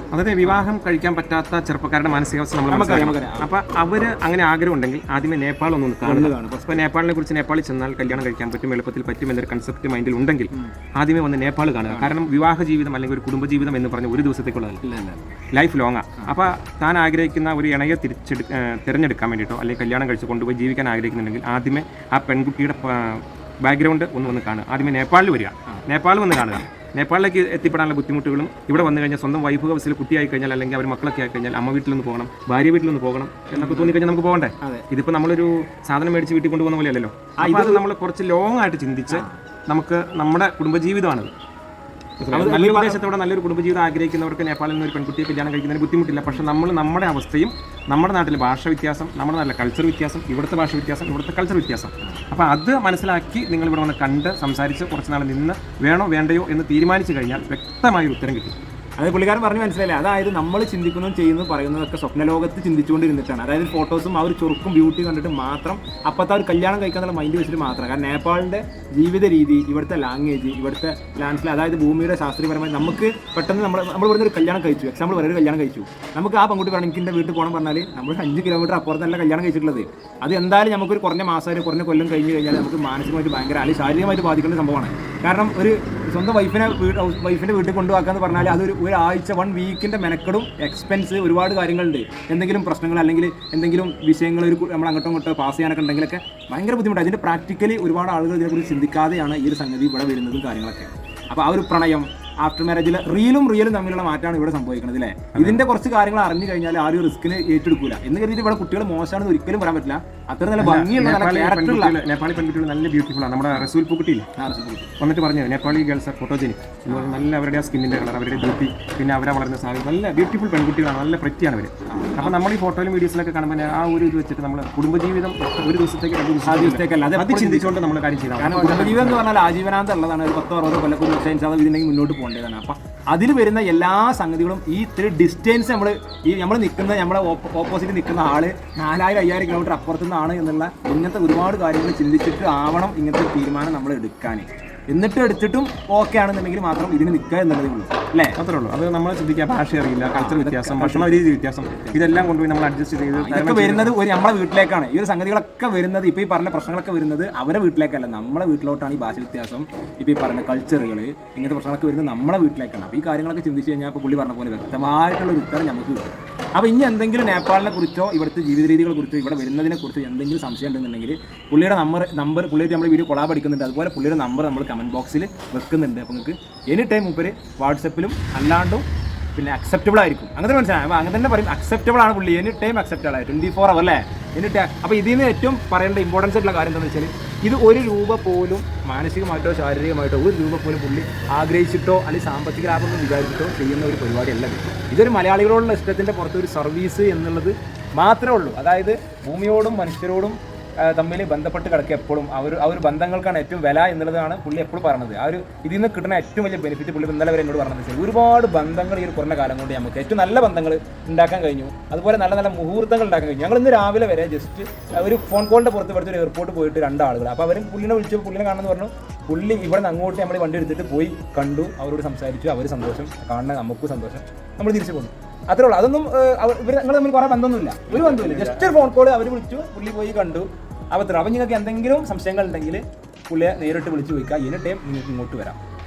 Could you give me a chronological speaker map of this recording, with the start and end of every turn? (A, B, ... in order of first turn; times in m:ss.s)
0:00.1-0:14.8 A
0:02.7-0:03.5 B
0:06.0-0:06.8 B
0:11.9-0:12.1 B
0:14.8-0:15.3 B
0:15.5-0:41.3 A
0:33.5-0:34.0 B
0:37.4-0:37.8 B
0:39.1-0:39.4 B
0:42.2-0:58.5 A
0:42.3-0:43.0 B
0:59.0-1:52.0 B
1:45.3-1:45.6 A
1:50.6-1:54.3 A
1:54.4-1:54.9 B
1:55.0-2:09.2 A
1:56.9-1:57.2 B
2:01.9-2:02.3 B
2:06.4-2:07.8 B
2:08.4-2:28.4 B
2:28.4-2:34.0 A
2:30.0-2:31.3 B
2:31.8-2:32.3 B
2:33.1-3:55.6 B
3:47.9-3:48.7 A